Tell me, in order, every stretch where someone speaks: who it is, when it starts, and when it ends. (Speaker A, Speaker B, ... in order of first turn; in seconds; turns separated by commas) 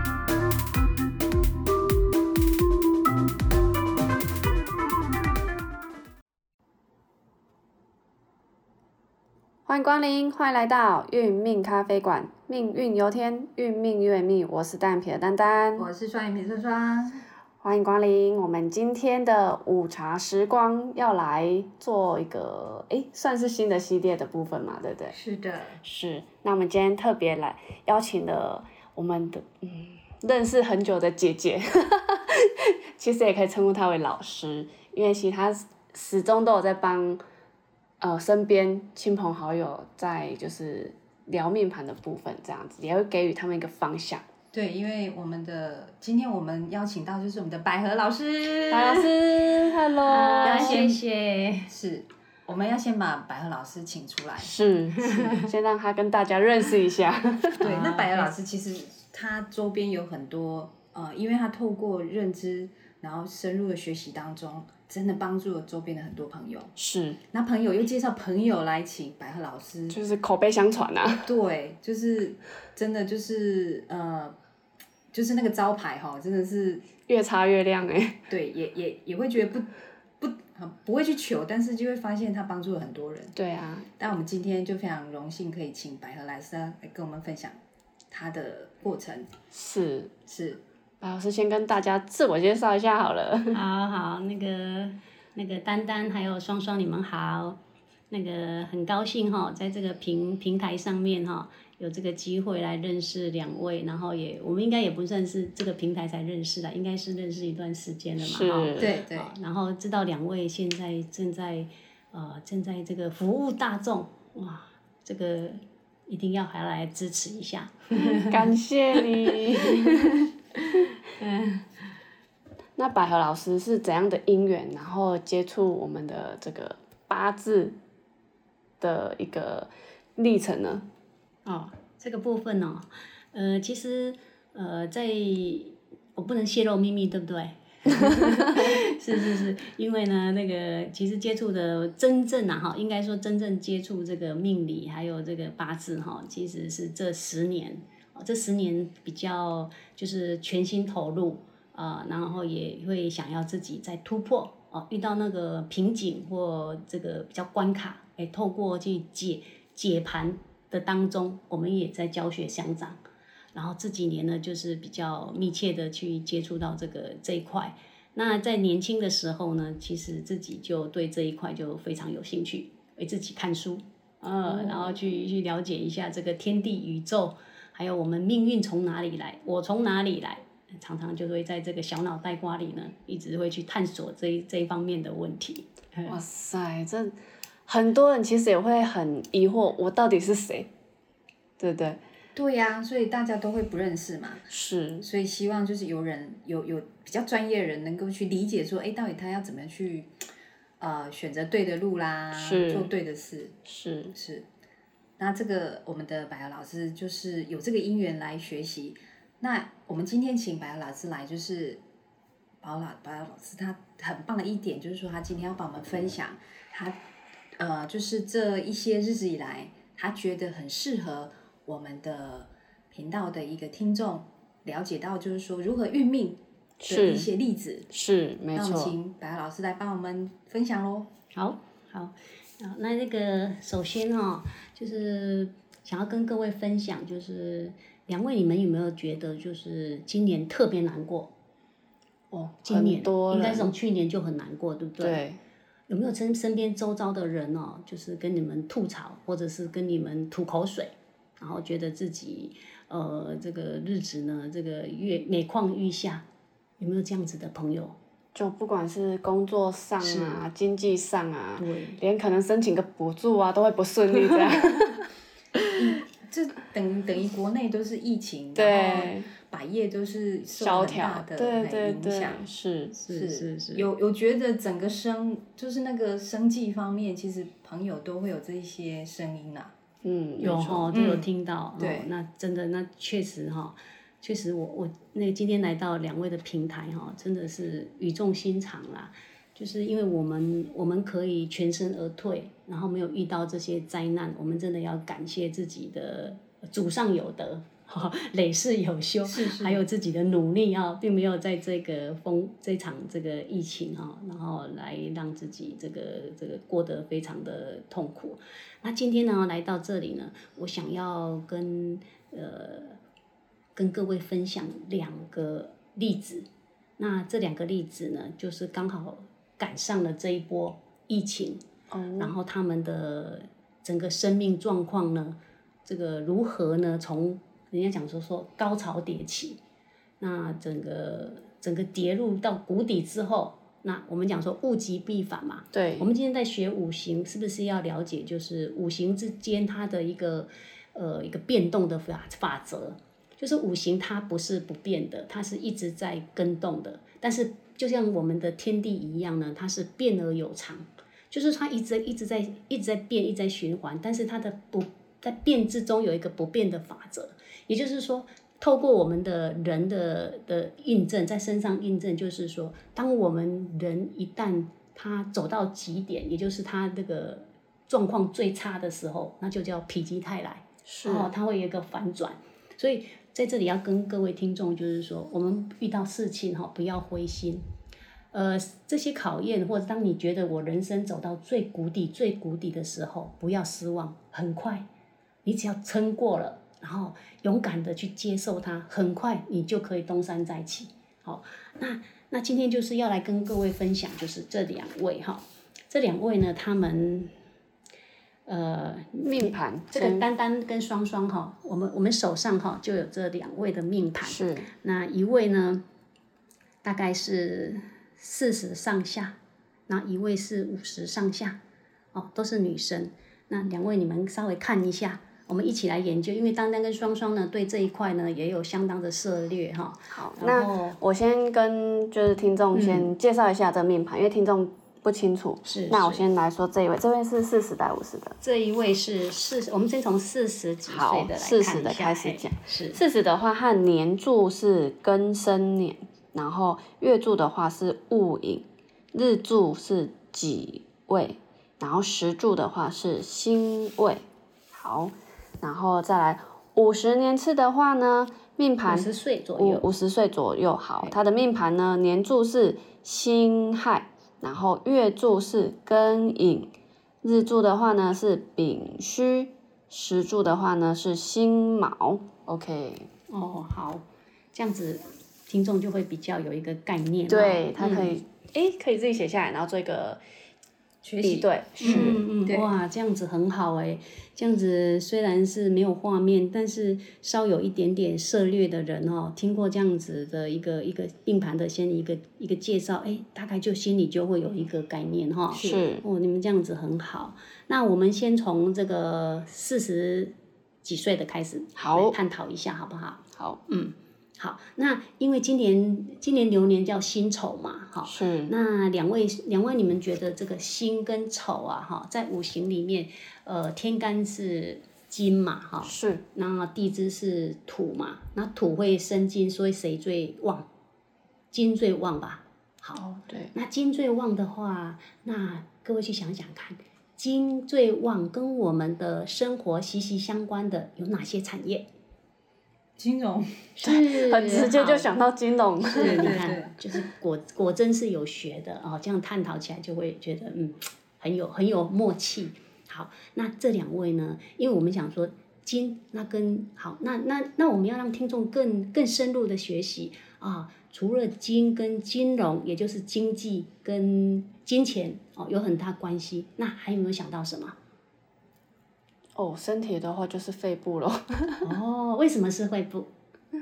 Speaker A: 9.7-15.9, Speaker B: 15.8-17.2, Speaker A: 17.6-25.1, Speaker B: 25.1-25.8, Speaker A: 25.8-37.2, Speaker A: 38.0-44.2, Speaker B: 44.5-51.0, Speaker A: 48.7-50.8, Speaker C: 50.0-51.7, Speaker B: 51.7-54.5, Speaker A: 54.4-57.7, Speaker C: 55.0-55.5, Speaker C: 57.6-58.3, Speaker B: 57.6-66.7, Speaker A: 66.8-67.2, Speaker B: 67.3-70.0, Speaker A: 69.9-71.3, Speaker B: 71.1-74.4, Speaker B: 75.1-76.8, Speaker A: 77.1-78.2, Speaker B: 78.3-83.4, Speaker A: 83.4-83.9, Speaker B: 84.0-87.6, Speaker B: 88.1-89.3, Speaker A: 89.5-90.1, Speaker B: 90.3-90.6, Speaker A: 91.0-93.6, Speaker C: 93.5-97.6, Speaker C: 98.1-118.5, Speaker A: 108.2-108.9, Speaker B: 108.8-109.3, Speaker A: 118.1-120.2, Speaker C: 119.1-120.2, Speaker C: 120.7-121.7, Speaker A: 122.8-127.8, Speaker A: 128.8-130.8, Speaker C: 131.5-163.0, Speaker A: 138.0-138.7, Speaker C: 163.5-186.2, Speaker A: 174.5-175.0, Speaker A: 186.1-187.2, Speaker A: 187.7-190.7, Speaker A: 191.6-192.0, Speaker B: 192.3-194.5, Speaker A: 194.5-195.1, Speaker B: 195.0-200.1, Speaker B: 200.8-203.6, Speaker A: 202.3-202.9, Speaker A: 203.7-204.2, Speaker B: 204.1-204.5, Speaker B: 205.2-211.8, Speaker B: 212.6-217.0, Speaker B: 217.6-227.9, Speaker A: 226.8-227.3, Speaker A: 227.9-228.9, Speaker B: 228.5-231.1, Speaker C: 231.3-241.3, Speaker A: 242.3-243.7, Speaker C: 242.6-245.2, Speaker A: 245.0-245.4, Speaker C: 245.9-256.2, Speaker C: 256.8-257.9, Speaker A: 258.3-265.1, Speaker C: 260.0-260.4, Speaker C: 261.6-262.0, Speaker B: 265.7-272.4, Speaker A: 268.5-269.3, Speaker A: 270.6-272.9, Speaker C: 273.0-273.9, Speaker B: 273.1-279.7, Speaker A: 280.0-280.9, Speaker C: 280.4-313.0, Speaker B: 280.9-281.2, Speaker B: 281.8-282.1, Speaker B: 299.3-299.8, Speaker C: 313.8-316.4, Speaker C: 317.0-321.6, Speaker A: 321.9-322.3, Speaker C: 322.2-329.6, Speaker C: 330.2-377.6, Speaker A: 335.7-336.1, Speaker A: 370.9-371.3, Speaker C: 378.3-384.8, Speaker C: 385.4-397.3, Speaker C: 398.4-405.8, Speaker A: 399.2-400.2, Speaker A: 404.2-404.7, Speaker C: 406.8-409.4, Speaker C: 409.9-411.6, Speaker C: 412.1-421.0, Speaker A: 420.1-428.4, Speaker C: 422.7-423.1, Speaker C: 425.6-426.2, Speaker C: 428.4-433.0, Speaker A: 430.9-456.7, Speaker C: 448.9-449.8, Speaker A: 457.2-463.1, Speaker C: 463.3-468.1, Speaker A: 467.3-470.2, Speaker B: 471.0-472.7, Speaker A: 471.2-472.2, Speaker C: 471.8-490.3, Speaker B: 485.6-485.9, Speaker A: 485.6-486.0, Speaker C: 490.8-510.7, Speaker A: 491.8-492.2, Speaker A: 498.1-498.5, Speaker A: 505.8-506.2, Speaker C: 511.5-521.9, Speaker A: 513.0-513.5, Speaker B: 523.0-523.7, Speaker C: 523.8-525.2, Speaker A: 523.8-526.6, Speaker B: 525.9-526.8, Speaker C: 526.0-547.8, Speaker A: 549.4-551.7, Speaker C: 551.6-553.1